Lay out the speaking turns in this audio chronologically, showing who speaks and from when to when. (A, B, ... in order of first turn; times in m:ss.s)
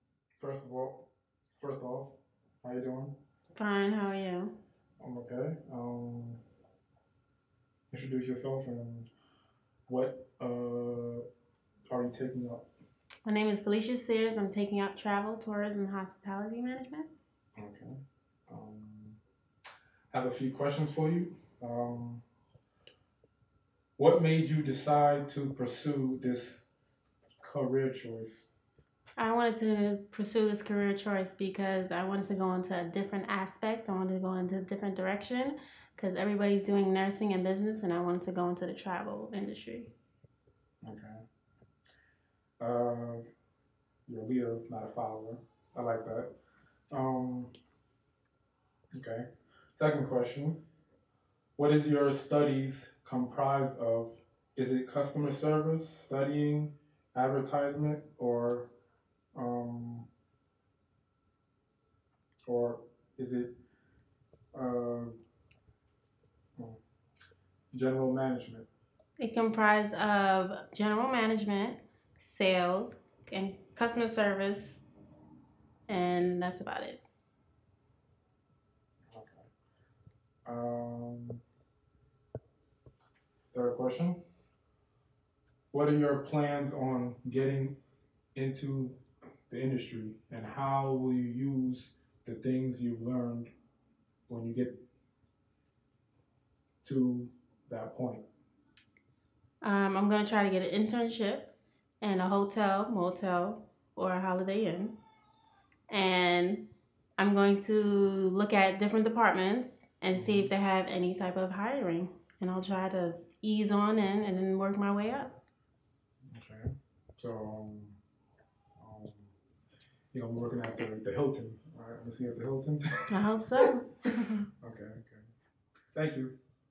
0:00.4-0:03.2 A
0:03.5-0:04.5 B
0:05.0-0:06.4 A
0:07.9-0:09.1 A
0:09.9-0:11.2 A
0:11.9-0:12.7 A
0:13.2-0:17.1 B
0:17.5-0:19.2 A
0:20.1-0:22.2 A
0:24.0-0:26.7 A
0:27.4-0:28.5 A
0:29.2-0:39.9 B
0:40.8-0:41.2 A
0:42.6-0:43.2 A
0:44.0-0:46.3 A
0:46.9-0:47.5 A
0:48.9-0:50.6 A
0:51.6-0:58.7 A
0:59.3-1:00.1 A
1:02.4-1:03.6 A
1:04.5-1:05.1 A
1:06.6-1:06.8 A
1:07.7-1:08.7 A
1:09.2-1:14.8 B
1:15.9-1:17.0 B
1:19.1-1:19.5 A
1:20.4-1:21.4 A
1:23.5-1:24.2 A
1:25.7-1:27.8 A
1:28.3-1:33.5 A
1:34.3-1:34.8 A
1:36.8-1:38.3 A
1:39.6-1:45.0 B
1:45.9-1:55.4 B
1:50.1-1:50.5 A
1:56.3-1:58.0 A
1:58.8-1:59.3 A
2:00.1-2:03.7 A
2:03.1-2:04.4 B
2:04.6-2:05.3 A
2:05.9-2:06.4 A